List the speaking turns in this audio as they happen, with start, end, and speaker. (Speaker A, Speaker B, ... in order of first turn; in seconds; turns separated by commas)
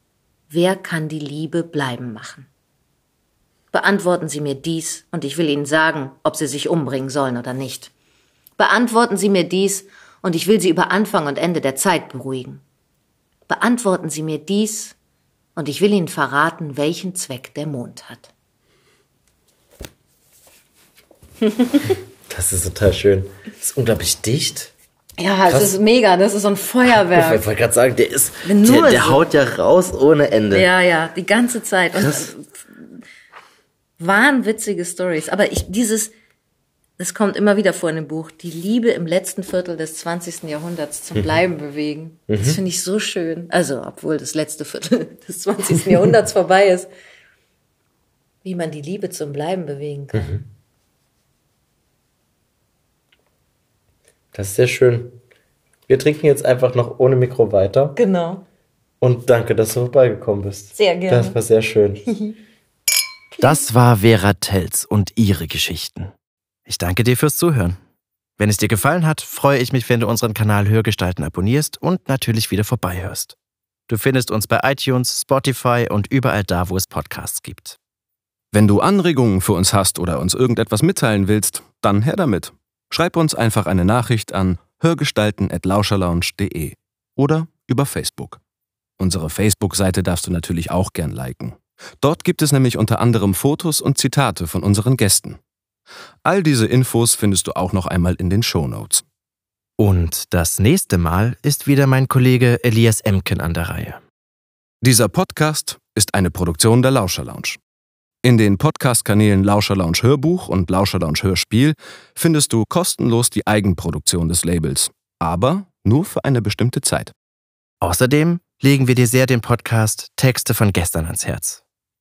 Speaker A: 0.5-2.5, Speaker A: 3.7-7.9, Speaker A: 8.6-12.6, Speaker A: 13.5-14.9, Speaker A: 15.6-18.3, Speaker A: 21.4-21.9, Speaker B: 22.3-24.7, Speaker A: 25.2-27.4, Speaker B: 25.5-25.8, Speaker B: 26.9-30.7, Speaker A: 28.4-29.2, Speaker A: 30.5-33.0, Speaker B: 32.0-32.3, Speaker A: 34.0-36.1, Speaker A: 37.0-46.9, Speaker B: 42.3-42.6, Speaker A: 48.4-50.4, Speaker B: 50.1-50.4, Speaker B: 54.3-55.2, Speaker B: 55.9-58.0, Speaker A: 58.0-58.4, Speaker B: 59.0-62.0, Speaker A: 60.7-61.4, Speaker A: 62.1-62.4, Speaker A: 63.3-63.6, Speaker C: 63.4-66.1, Speaker C: 66.7-67.8, Speaker C: 68.4-73.3, Speaker C: 73.9-77.8, Speaker D: 78.5-88.4, Speaker D: 89.0-95.4, Speaker D: 96.2-99.0, Speaker C: 99.8-104.0, Speaker D: 104.8-107.6, Speaker D: 108.2-117.1, Speaker C: 117.8-121.6